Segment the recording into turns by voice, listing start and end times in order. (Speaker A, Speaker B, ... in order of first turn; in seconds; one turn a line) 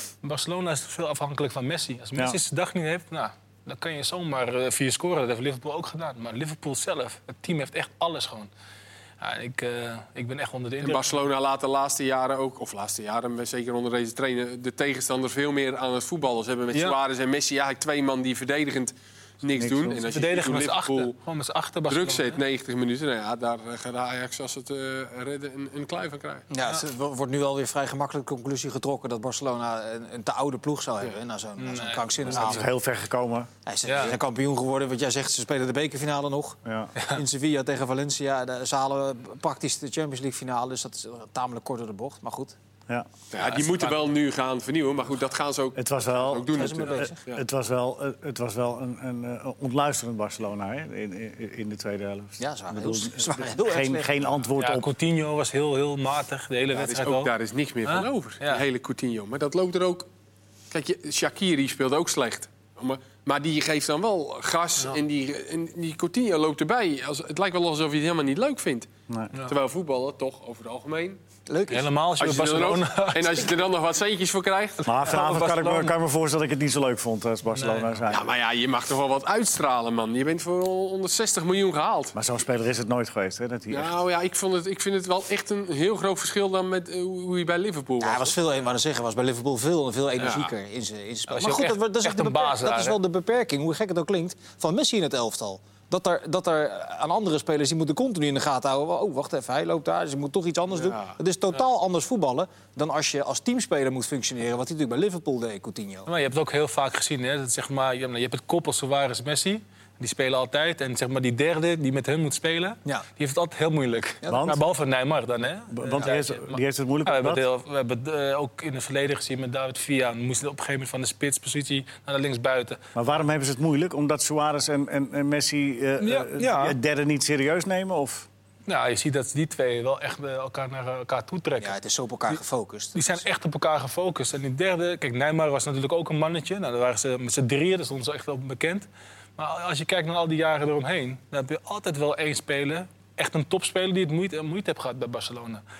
Speaker A: 0.2-8.5
Speaker A: 9.2-11.1
Speaker B: 10.8-21.1
Speaker C: 19.6-20.0
Speaker A: 20.1-22.4
Speaker B: 21.9-26.5
Speaker D: 26.5-32.7
Speaker A: 31.6-32.4
Speaker C: 32.2-33.5
Speaker D: 33.6-42.5
Speaker A: 33.8-34.1
Speaker C: 36.6-36.9
Speaker A: 37.0-37.2
Speaker B: 43.3-47.4
Speaker A: 43.4-44.0
Speaker C: 45.8-54.9
Speaker D: 46.5-47.2
Speaker D: 52.4-54.1
Speaker A: 54.6-57.3
Speaker B: 56.7-60.1
Speaker A: 57.9-58.6
Speaker B: 60.7-68.9
Speaker B: 69.4-71.2
Speaker D: 71.5-71.9
Speaker A: 71.7-73.5
Speaker B: 72.2-74.8
Speaker A: 74.8-75.9
Speaker C: 74.8-78.3
Speaker A: 77.5-77.9
Speaker B: 78.1-82.2
Speaker C: 82.1-84.0
Speaker B: 83.7-88.4
Speaker D: 88.0-106.1
Speaker B: 90.2-90.5
Speaker A: 91.3-93.0
Speaker B: 100.8-101.1
Speaker A: 106.1-122.8
Speaker D: 114.2-114.6
Speaker C: 114.3-114.6
Speaker C: 115.7-117.4
Speaker C: 122.9-128.3
Speaker A: 126.0-126.8
Speaker A: 128.7-131.7
Speaker D: 131.6-133.2
Speaker A: 132.9-145.6